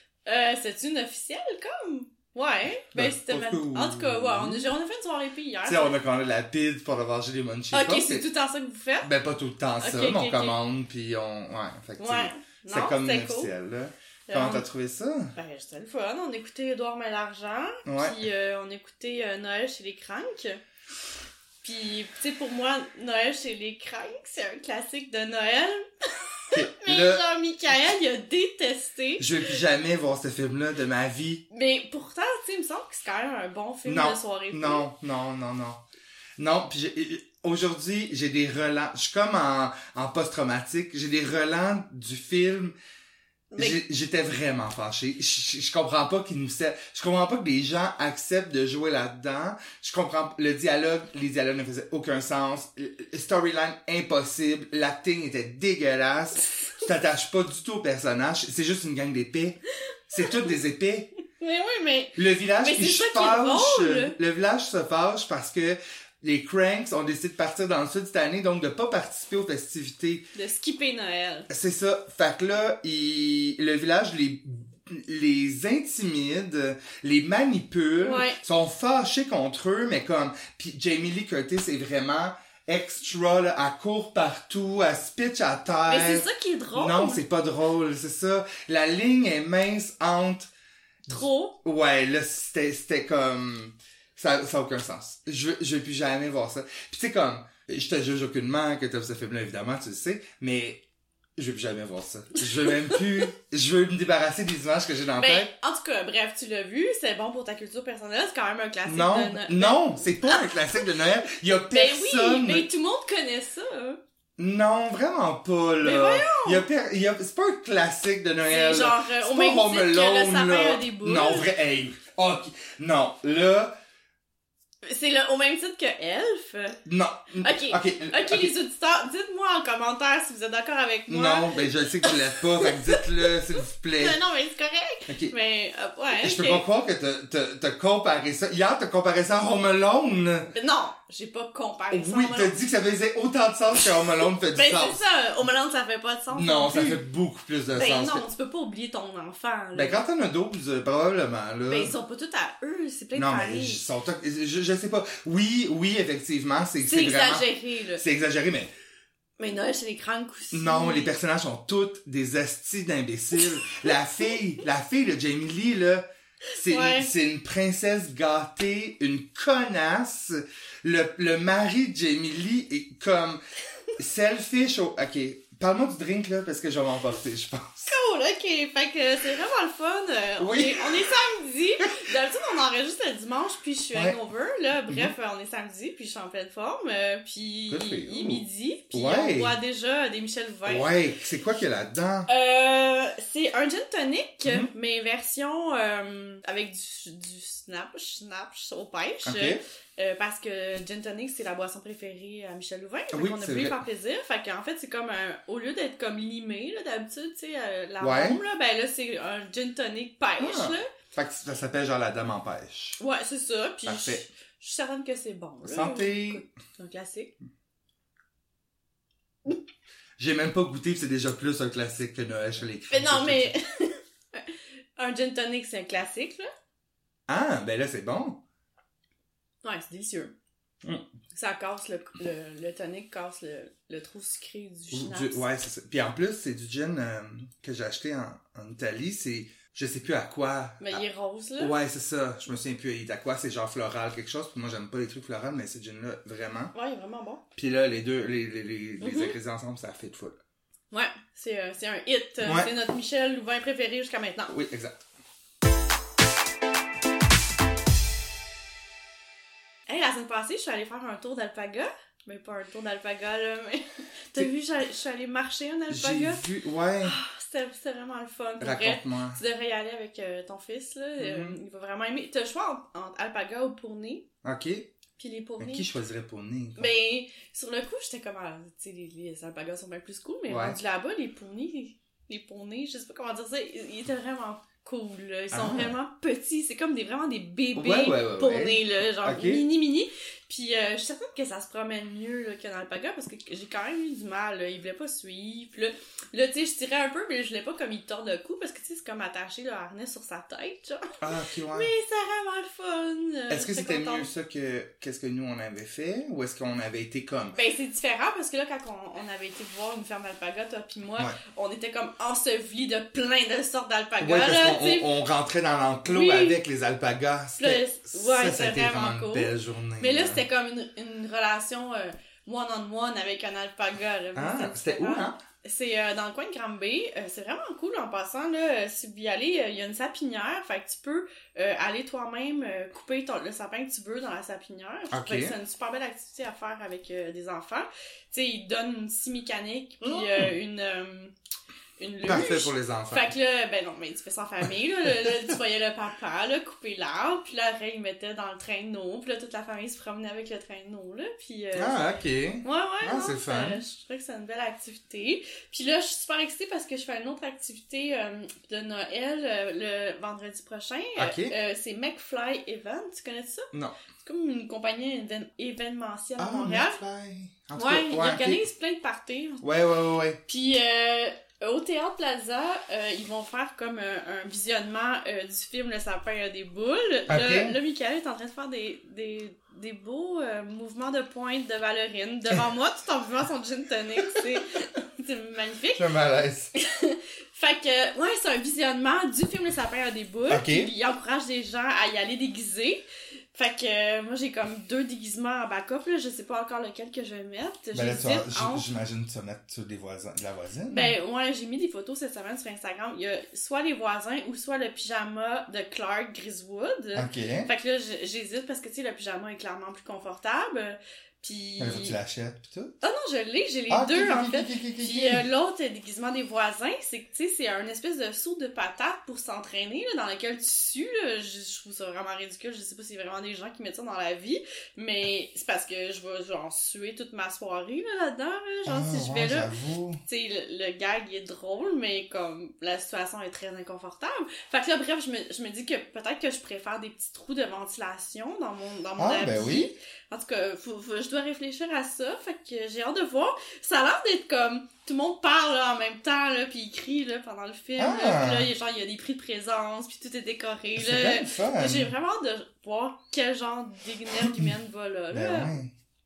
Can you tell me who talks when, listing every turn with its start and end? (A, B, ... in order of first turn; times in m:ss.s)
0:00.3-0:06.0 A
0:02.9-0:04.6 B
0:05.7-0:08.2 B
0:07.7-0:09.1 A
0:09.0-0:15.3 B
0:09.8-0:10.6 A
0:12.0-0:13.5 A
0:14.3-0:14.6 A
0:15.4-0:20.6 A
0:17.9-0:18.2 B
0:21.6-0:29.5 A
0:26.5-0:27.2 B
0:29.2-0:31.4 B
0:31.5-0:34.9 A
0:33.9-0:35.8 B
0:36.4-0:42.8 B
0:43.5-0:43.8 A
0:43.6-1:01.1 B
1:01.4-1:04.1 A
1:02.2-1:10.3 B
1:10.4-1:11.5 A
1:11.5-1:30.5 B
1:18.0-1:18.4 A
1:25.9-1:27.2 A
1:31.1-1:40.8 B
1:31.1-1:31.6 A
1:41.4-1:45.5 B
1:45.2-1:50.9 A
1:48.9-1:52.7 B
1:51.7-1:54.0 A
1:54.4-2:03.8 B
1:55.8-1:56.7 A
1:58.5-2:01.5 A
2:04.8-2:06.8 A
2:06.9-2:08.5 B
2:07.4-2:13.3 A
2:11.1-2:14.2 B
2:14.0-2:16.6 A
2:15.1-2:15.3 B
2:16.1-2:20.5 B
2:20.5-2:22.5 A
2:21.9-2:25.0 B
2:24.5-2:27.0 A
2:26.3-2:28.3 B
2:27.7-2:30.0 A
2:29.7-2:31.9 B
2:31.7-2:33.9 A
2:33.2-2:38.7 B
2:36.8-2:38.0 A
2:39.4-2:41.1 A
2:40.5-2:46.1 B
2:46.6-2:47.1 A
2:46.6-2:53.4 B
2:54.0-2:57.9 B
2:57.9-3:10.9 A
3:00.4-3:01.0 B
3:07.7-3:09.6 B
3:10.7-3:12.3 B
3:12.3-3:30.9 A
3:19.2-3:19.6 B
3:23.1-3:23.8 B
3:28.0-3:28.4 B
3:30.4-3:33.0 B
3:33.0-3:37.3 A
3:33.9-3:34.2 B
3:35.6-3:36.4 B
3:40.2-3:43.5 B
3:42.9-3:46.5 A
3:47.3-3:48.4 B
3:49.6-3:50.3 A
3:51.3-3:55.4 A
3:54.9-4:01.0 B
4:00.8-4:01.7 A
4:01.6-4:06.7 B
4:06.7-4:07.4 A
4:07.6-4:10.4 B
4:09.0-4:09.3 A
4:10.9-4:14.5 A
4:12.4-4:12.7 B
4:14.5-4:15.1 B
4:19.9-4:26.4 A
4:25.9-4:27.2 B
4:27.0-4:34.3 A
4:28.6-4:29.4 B
4:31.2-4:31.6 B
4:34.4-4:34.9 B
4:35.2-4:35.9 A
4:35.6-4:36.9 B
4:36.8-5:01.2 A
4:40.5-4:40.8 B
4:45.5-4:45.9 B
4:47.7-4:49.6 B
5:01.2-5:01.9 B
5:01.7-5:04.3 A
5:03.5-5:07.6 B
5:07.6-5:15.1 A
5:14.2-5:20.4 B
5:16.1-5:16.6 A
5:17.6-5:41.3 A
5:24.4-5:25.4 B
5:35.1-5:35.6 B
5:40.0-5:40.5 B
5:42.0-5:52.0 A
5:42.2-5:43.3 B
5:51.8-5:53.8 B
5:52.6-6:03.7 A
6:01.2-6:01.6 B
6:03.7-6:04.0 B
6:04.2-6:07.0 A
6:06.4-6:08.6 B
6:07.8-6:09.6 A
6:09.6-6:10.4 B
6:10.5-6:26.0 A
6:17.3-6:17.8 B
6:25.9-6:26.7 B
6:26.8-6:33.0 A
6:30.5-6:30.9 B
6:33.6-6:38.9 A
6:37.9-6:41.1 B
6:40.9-6:52.2 A
6:47.2-6:47.7 B
6:51.8-6:53.0 B
6:53.0-7:09.7 A
6:53.9-6:55.4 B
7:08.9-7:10.2 B
7:10.3-7:35.8 A
7:19.2-7:19.9 B
7:28.0-7:28.7 B
7:31.0-7:32.1 B
7:34.4-7:34.7 B
7:35.3-7:35.9 B